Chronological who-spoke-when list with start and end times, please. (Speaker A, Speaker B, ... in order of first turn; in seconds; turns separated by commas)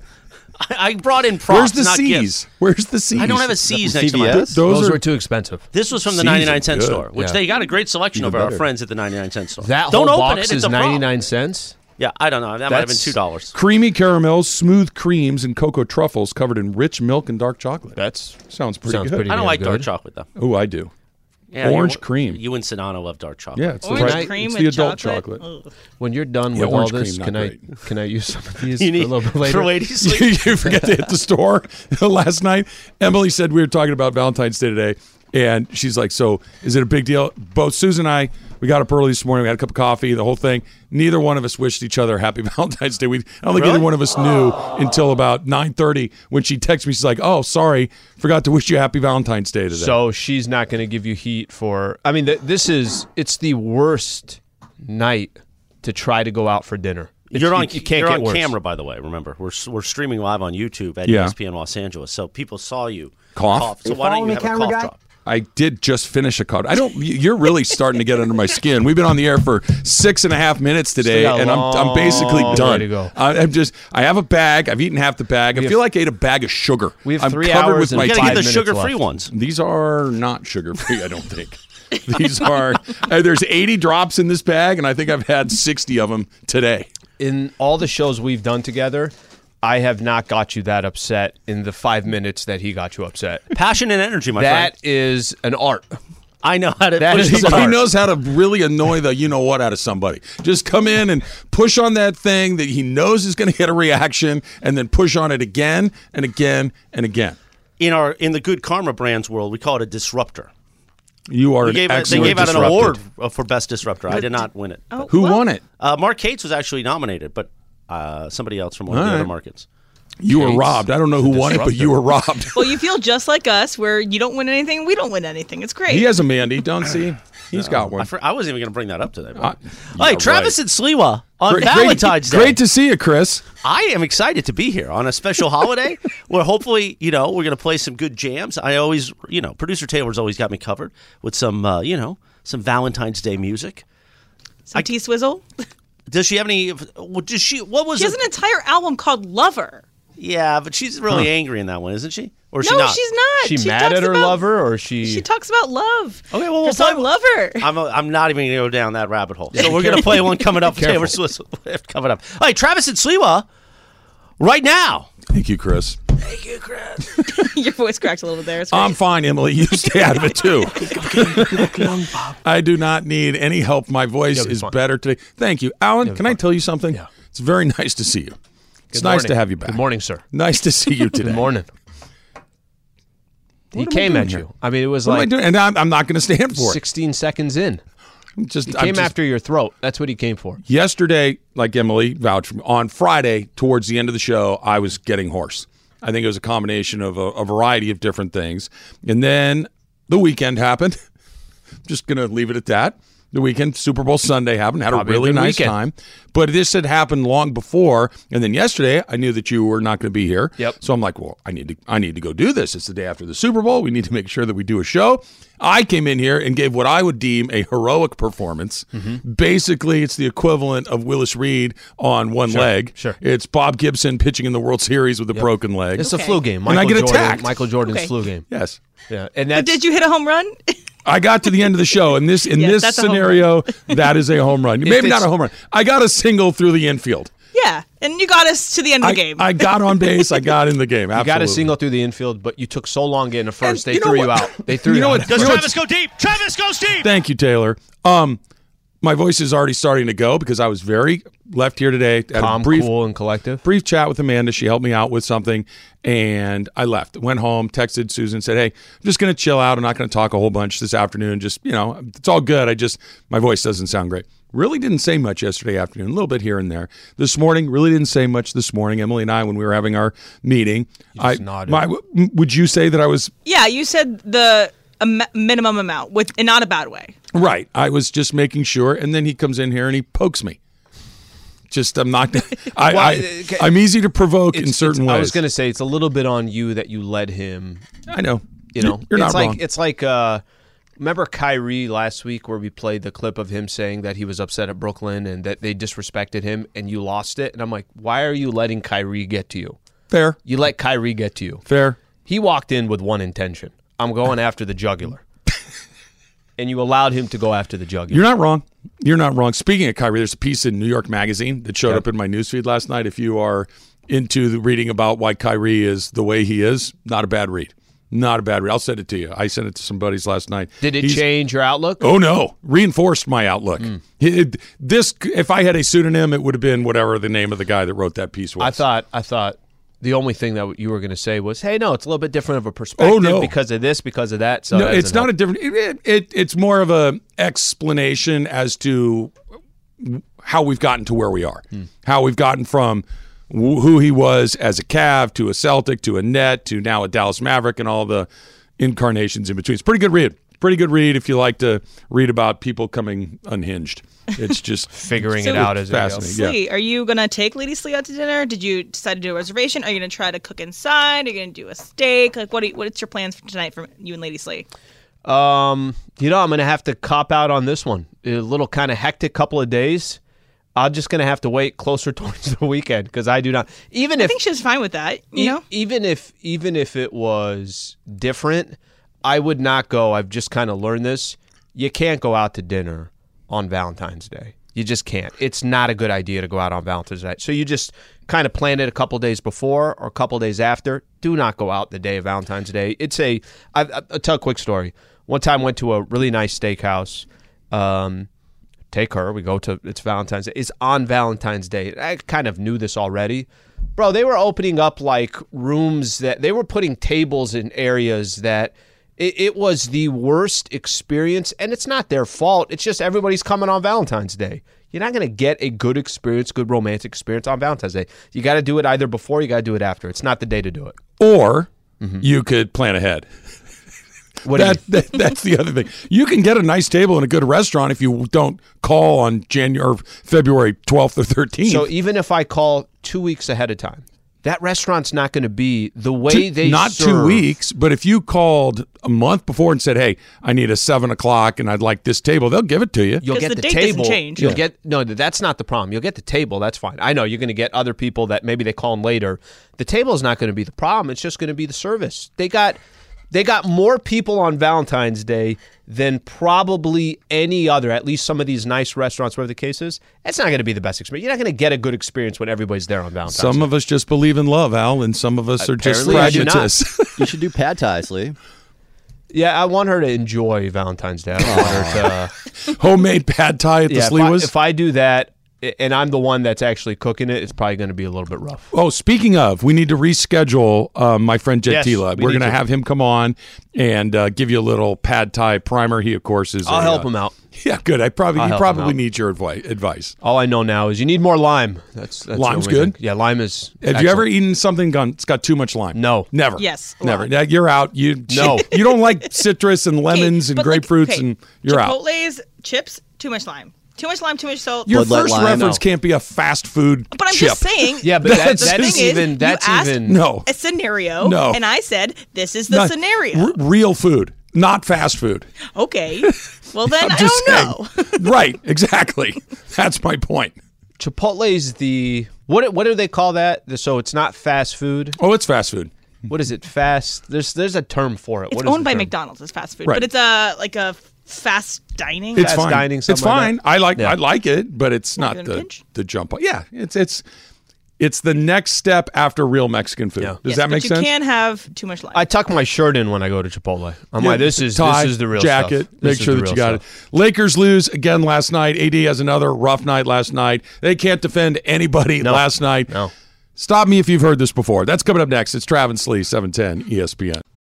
Speaker A: 0.6-2.3, Speaker B: 1.5-5.0, Speaker A: 3.1-4.5, Speaker C: 3.7-4.5, Speaker D: 4.2-5.7, Speaker A: 5.7-11.1, Speaker B: 6.0-7.0, Speaker D: 7.1-7.4, Speaker C: 8.1-8.6, Speaker D: 9.6-11.8, Speaker A: 12.0-13.5, Speaker D: 12.7-13.2, Speaker B: 13.5-19.3, Speaker D: 17.9-19.9, Speaker A: 19.3-20.3, Speaker B: 20.4-20.9, Speaker A: 21.5-24.1, Speaker B: 21.6-22.4, Speaker B: 23.5-25.4, Speaker E: 23.8-25.7, Speaker D: 23.9-24.3, Speaker D: 26.0-29.8, Speaker B: 26.5-27.7, Speaker A: 28.7-30.4, Speaker B: 30.0-50.0, Speaker A: 43.5-43.9, Speaker D: 49.7-58.5, Speaker A: 57.3-65.0, Speaker B: 61.0-61.3, Speaker B: 63.3-63.9, Speaker C: 64.1-64.7, Speaker B: 65.2-78.5, Speaker D: 71.0-73.1, Speaker D: 75.5-75.8, Speaker D: 77.0-78.9, Speaker A: 77.9-79.3, Speaker B: 79.3-86.9, Speaker D: 87.2-93.5, Speaker A: 93.5-94.7, Speaker D: 94.3-96.0, Speaker A: 96.4-97.8, Speaker D: 97.0-97.8, Speaker B: 97.1-107.4, Speaker A: 107.8-110.5, Speaker B: 111.3-113.0, Speaker A: 111.6-115.1, Speaker D: 112.1-112.9, Speaker E: 114.1-114.4, Speaker E: 114.9-115.5, Speaker B: 115.1-115.6, Speaker A: 115.8-119.7, Speaker B: 118.9-119.3, Speaker B: 120.2-122.8, Speaker D: 120.3-122.1, Speaker E: 122.5-126.2, Speaker B: 125.9-128.1, Speaker A: 127.5-132.6, Speaker B: 129.4-130.5, Speaker B: 131.5-133.4, Speaker A: 133.6-143.8, Speaker E: 144.7-145.4, Speaker A: 146.1-148.2, Speaker E: 148.0-149.8, Speaker A: 150.2-153.0, Speaker E: 152.6-154.4, Speaker D: 153.4-155.2, Speaker E: 155.0-157.7, Speaker A: 156.3-157.1, Speaker A: 157.6-163.4, Speaker D: 159.5-161.1, Speaker A: 164.4-165.1, Speaker B: 165.3-166.0, Speaker A: 166.2-167.1, Speaker E: 167.3-169.0, Speaker B: 168.7-171.9, Speaker E: 169.7-171.8, Speaker B: 172.4-178.4, Speaker D: 174.3-174.7, Speaker D: 176.0-177.1, Speaker D: 178.9-180.2, Speaker B: 178.9-181.5, Speaker D: 181.2-181.7, Speaker B: 183.7-184.4, Speaker D: 183.7-185.3, Speaker B: 185.0-186.8, Speaker D: 186.5-187.8, Speaker B: 188.4-189.1, Speaker D: 188.7-190.6, Speaker B: 190.7-201.0, Speaker B: 201.8-226.1, Speaker D: 204.9-205.8, Speaker D: 218.9-219.2, Speaker D: 222.5-223.2, Speaker D: 225.3-228.5, Speaker E: 226.0-226.5, Speaker B: 226.6-227.6, Speaker E: 227.8-228.1, Speaker B: 228.5-228.8, Speaker D: 229.1-229.8, Speaker E: 229.5-230.8, Speaker B: 231.0-237.3, Speaker E: 232.2-234.0, Speaker D: 234.8-235.3, Speaker E: 237.5-240.4, Speaker B: 239.0-241.7, Speaker D: 241.1-245.7, Speaker B: 243.6-245.7, Speaker A: 245.3-247.1, Speaker B: 247.0-248.4, Speaker B: 249.0-252.9, Speaker D: 252.3-253.6, Speaker B: 253.6-273.3, Speaker D: 271.1-271.8, Speaker E: 273.4-277.1, Speaker B: 277.3-280.6, Speaker B: 281.7-285.4, Speaker D: 282.8-283.8, Speaker D: 284.5-287.8, Speaker B: 288.1-289.6, Speaker D: 288.7-290.4, Speaker D: 291.0-299.8, Speaker B: 300.1-300.4, Speaker D: 300.4-301.6, Speaker B: 301.7-302.0, Speaker D: 302.2-305.2, Speaker D: 306.6-308.3, Speaker B: 308.1-321.2, Speaker D: 320.8-322.1, Speaker B: 322.0-328.8, Speaker D: 328.6-335.3, Speaker B: 333.0-333.5, Speaker B: 334.7-339.3, Speaker B: 340.0-348.3, Speaker B: 348.8-356.6, Speaker D: 354.9-356.3, Speaker E: 355.4-364.6, Speaker D: 365.2-370.2, Speaker D: 370.8-374.4, Speaker E: 374.2-375.6, Speaker D: 375.3-398.3, Speaker D: 398.9-421.0, Speaker B: 421.2-421.7, Speaker D: 422.0-422.2, Speaker B: 422.2-423.2, Speaker D: 424.4-424.8, Speaker B: 424.5-431.9, Speaker D: 431.6-437.4, Speaker B: 436.3-443.2, Speaker D: 443.2-452.8, Speaker E: 443.2-444.6, Speaker D: 453.3-463.7, Speaker B: 463.3-467.4, Speaker D: 465.6-466.8, Speaker C: 466.1-466.4, Speaker C: 467.2-468.4, Speaker D: 469.3-472.3, Speaker C: 471.4-472.1, Speaker B: 472.7-474.5, Speaker D: 473.9-478.7, Speaker B: 478.7-490.1, Speaker D: 481.6-482.6, Speaker D: 486.6-487.4, Speaker D: 488.3-489.0, Speaker D: 490.2-494.3, Speaker B: 492.3-493.0, Speaker B: 493.8-502.0, Speaker D: 495.9-496.3, Speaker E: 496.6-497.3, Speaker D: 498.3-498.7, Speaker E: 498.7-499.4, Speaker E: 500.1-505.1, Speaker B: 504.9-509.2, Speaker C: 504.9-505.7, Speaker D: 505.4-505.8, Speaker E: 507.1-513.5, Speaker D: 508.0-510.2, Speaker B: 510.0-510.5, Speaker B: 511.2-511.6, Speaker B: 512.7-515.5, Speaker E: 515.7-518.4, Speaker B: 516.9-520.5, Speaker D: 521.0-525.2, Speaker B: 525.2-525.9, Speaker D: 526.3-529.1, Speaker E: 528.5-532.7, Speaker B: 532.3-537.2, Speaker D: 532.4-534.2, Speaker E: 535.2-535.8, Speaker B: 538.0-541.1, Speaker E: 540.4-542.2, Speaker D: 542.1-546.8, Speaker B: 544.2-552.9, Speaker D: 552.2-553.1, Speaker B: 553.6-557.4